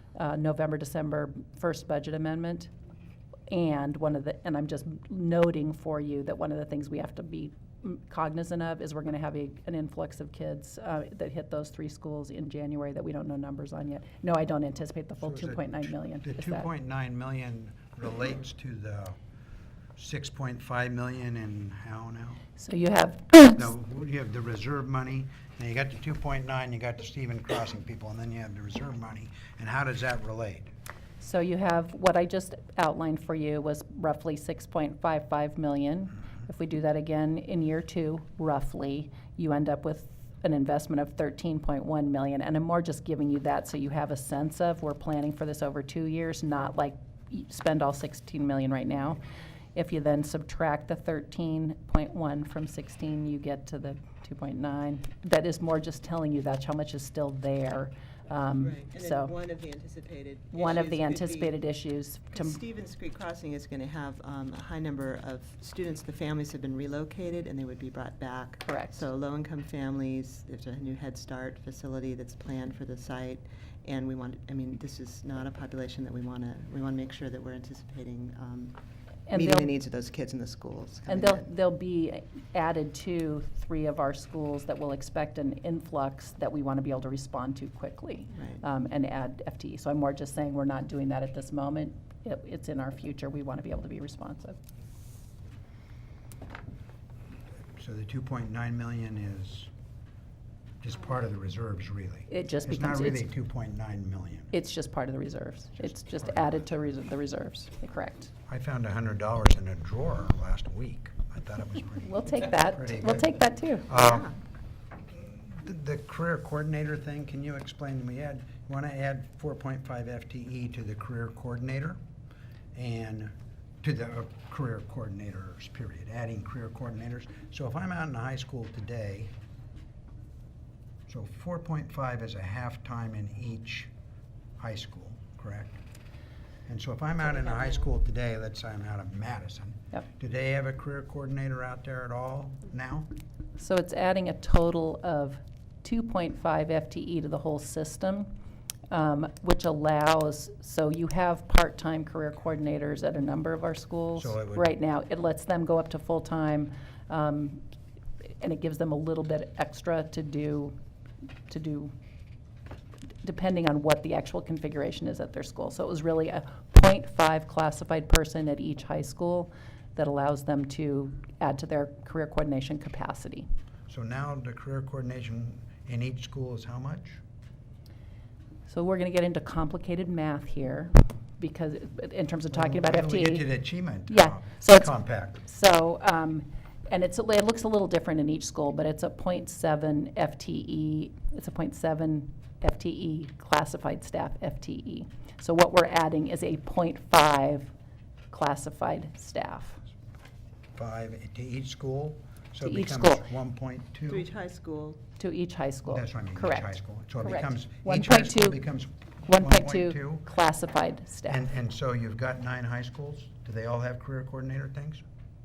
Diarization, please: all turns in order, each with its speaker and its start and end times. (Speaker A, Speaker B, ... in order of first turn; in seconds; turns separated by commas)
Speaker A: 0.1-2.7, Speaker A: 3.5-16.7, Speaker B: 15.2-19.2, Speaker B: 20.0-22.4, Speaker A: 22.6-23.7, Speaker B: 23.6-30.7, Speaker A: 31.2-49.2, Speaker A: 49.8-59.3, Speaker C: 58.6-61.5, Speaker A: 60.5-62.6, Speaker C: 62.3-78.8, Speaker A: 68.7-69.0, Speaker A: 79.3-79.7, Speaker C: 79.3-81.5, Speaker A: 81.1-94.6, Speaker C: 88.3-88.6, Speaker B: 97.8-99.7, Speaker B: 100.8-104.5, Speaker A: 102.3-103.3, Speaker A: 104.5-108.3, Speaker B: 105.8-106.7, Speaker B: 108.5-113.3, Speaker A: 112.1-113.9, Speaker B: 113.9-114.3, Speaker C: 114.0-114.3, Speaker B: 115.1-122.0, Speaker B: 122.7-129.3, Speaker B: 131.1-133.9, Speaker B: 134.6-135.8, Speaker B: 136.7-143.1, Speaker A: 143.6-148.3, Speaker A: 148.9-157.6, Speaker B: 154.2-154.7, Speaker A: 158.4-160.8, Speaker A: 161.5-161.9, Speaker A: 163.2-173.5, Speaker B: 173.9-177.2, Speaker A: 178.7-183.5, Speaker B: 182.5-185.4, Speaker A: 184.1-197.7, Speaker A: 198.3-199.8, Speaker B: 200.8-204.3, Speaker A: 202.6-203.3, Speaker C: 204.1-205.0, Speaker A: 205.2-208.6, Speaker B: 205.8-210.2, Speaker A: 209.3-211.4, Speaker B: 211.3-215.0